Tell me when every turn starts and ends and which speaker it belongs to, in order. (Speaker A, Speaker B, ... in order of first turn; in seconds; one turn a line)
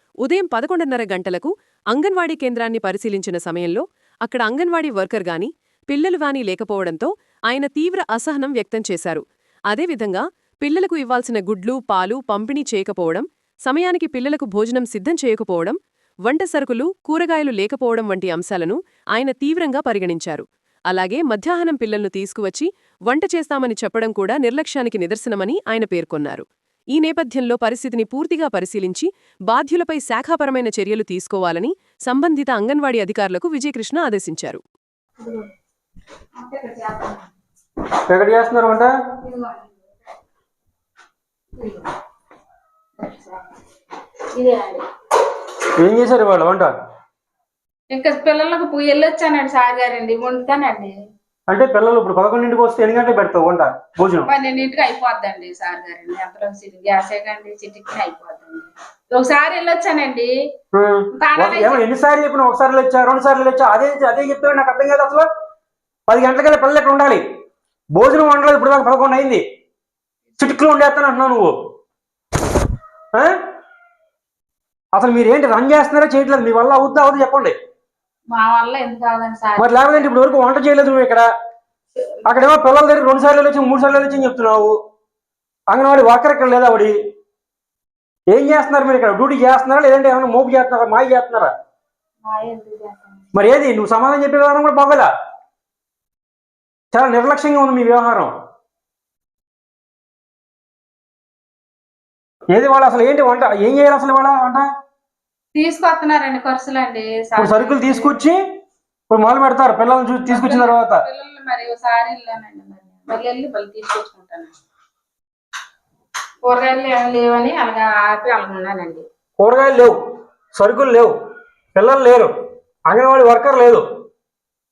Speaker A: 0.2-34.6
Speaker B: 35.2-35.5
Speaker B: 36.4-37.2
Speaker C: 38.1-38.9
Speaker B: 39.2-39.7
Speaker B: 41.6-41.9
Speaker B: 43.0-43.4
Speaker B: 44.3-44.8
Speaker C: 45.8-46.7
Speaker B: 47.9-50.9
Speaker C: 51.5-54.3
Speaker B: 54.2-60.3
Speaker C: 60.7-65.3
Speaker B: 61.1-61.8
Speaker C: 66.1-67.2
Speaker C: 67.9-69.4
Speaker C: 70.4-71.5
Speaker C: 74.9-77.5
Speaker B: 78.3-80.0
Speaker C: 79.6-81.3
Speaker C: 82.2-84.7
Speaker C: 85.7-86.9
Speaker C: 88.3-91.5
Speaker B: 92.2-93.2
Speaker C: 93.3-95.1
Speaker C: 96.9-98.3
Speaker C: 102.5-104.7
Speaker B: 105.5-108.1
Speaker C: 107.4-108.4
Speaker C: 109.1-111.0
Speaker B: 110.3-114.5
Speaker B: 116.4-119.0
Speaker C: 119.4-119.9
Speaker C: 120.5-121.1
Speaker C: 121.7-122.3
Speaker C: 122.9-123.8